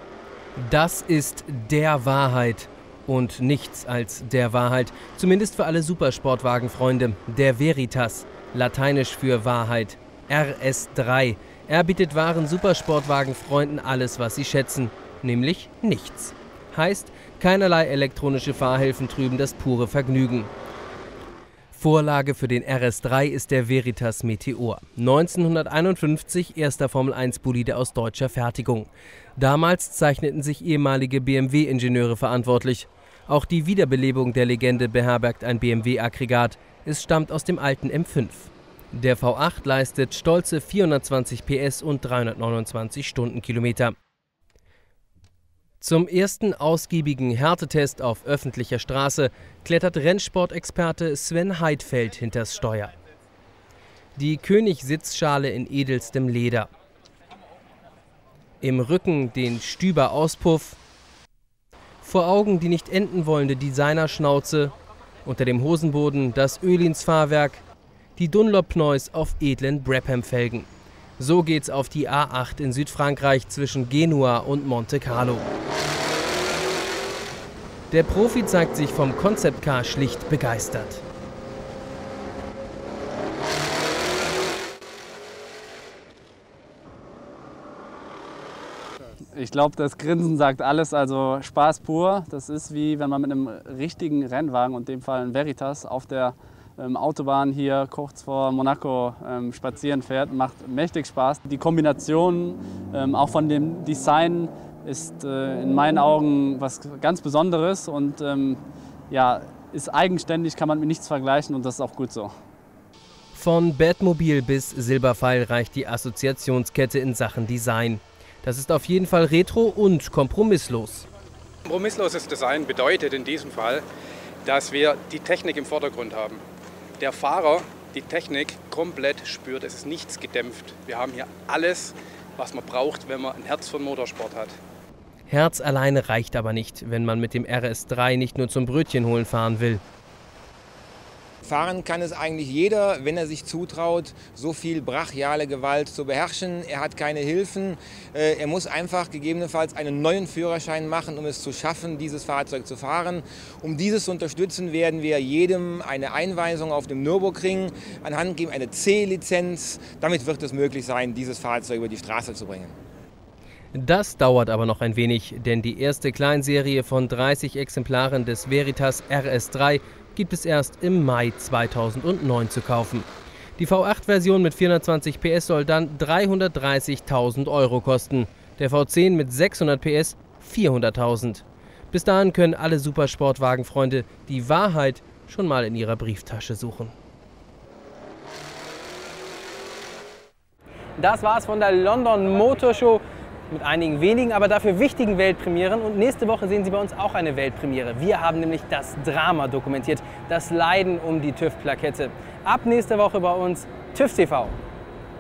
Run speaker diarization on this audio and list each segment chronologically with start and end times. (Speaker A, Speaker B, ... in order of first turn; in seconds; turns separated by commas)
Speaker A: 0.6-20.5, Speaker A: 21.7-44.0, Speaker A: 45.8-52.9, Speaker A: 54.2-56.7, Speaker A: 58.6-60.8, Speaker A: 62.0-64.7, Speaker A: 65.2-67.6, Speaker A: 68.2-75.5, Speaker A: 77.9-81.0, Speaker B: 89.3-112.3, Speaker A: 113.3-121.0, Speaker C: 121.7-123.8, Speaker C: 124.5-126.4, Speaker C: 127.0-134.6, Speaker A: 135.3-139.8, Speaker D: 141.4-162.8, Speaker A: 163.7-173.1, Speaker A: 173.6-186.9, Speaker E: 191.0-204.5